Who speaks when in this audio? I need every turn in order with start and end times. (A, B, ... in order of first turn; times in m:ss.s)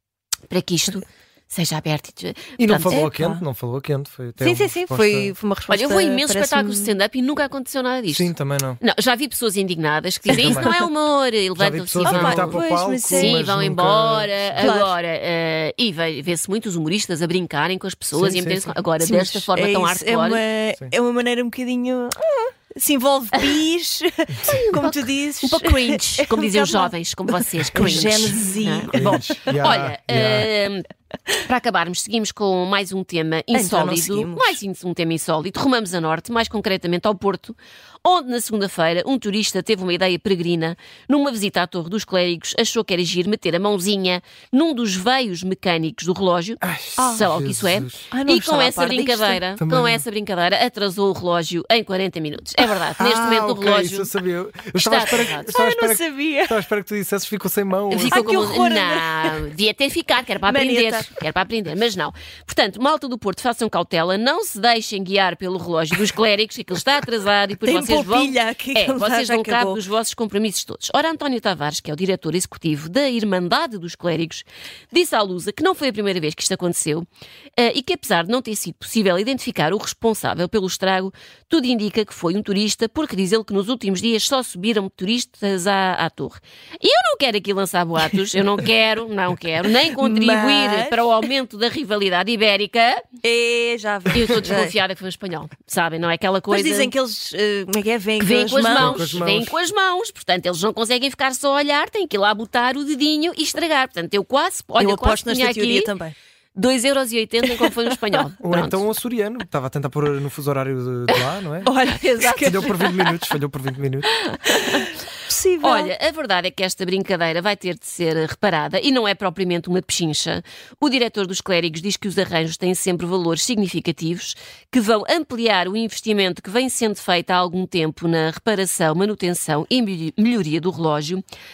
0:00.5-0:03.0 A
0:02.6-0:05.3 B
0:02.9-0:03.4 C
0:04.4-0:07.0 C
0:05.7-0:12.6 A
0:08.1-0:08.8 B
0:10.3-0:10.7 B
0:10.3-0:10.7 C
0:11.6-0:14.6 B
0:12.0-0:13.5 C
0:13.1-0:20.4 A
0:14.6-0:15.0 C
0:18.1-0:18.8 B
0:19.0-0:29.6 C
0:24.4-0:54.1 A
0:28.9-0:30.5 B
0:33.5-0:34.6 C
0:46.6-0:48.1 B
0:47.0-0:47.3 C
0:48.1-0:49.4 C
0:49.6-0:50.0 B
0:53.0-0:58.5 B
0:54.8-0:55.5 A
0:55.5-0:56.6 C
0:57.9-0:59.4 C
0:57.9-1:33.0 A
1:00.4-1:01.1 C
1:07.6-1:09.8 C
1:29.9-1:31.1 C
1:33.2-1:34.8 C
1:34.1-1:36.9 A
1:36.5-1:39.2 C
1:38.2-1:45.9 A
1:38.7-1:39.6 B
1:44.8-1:46.1 C
1:46.6-1:48.8 A
1:48.4-1:51.7 B
1:51.6-1:53.0 C
1:51.9-1:53.0 A
1:52.4-1:54.1 B
1:54.1-1:54.9 A
1:54.6-1:55.9 C
1:55.6-2:11.2 A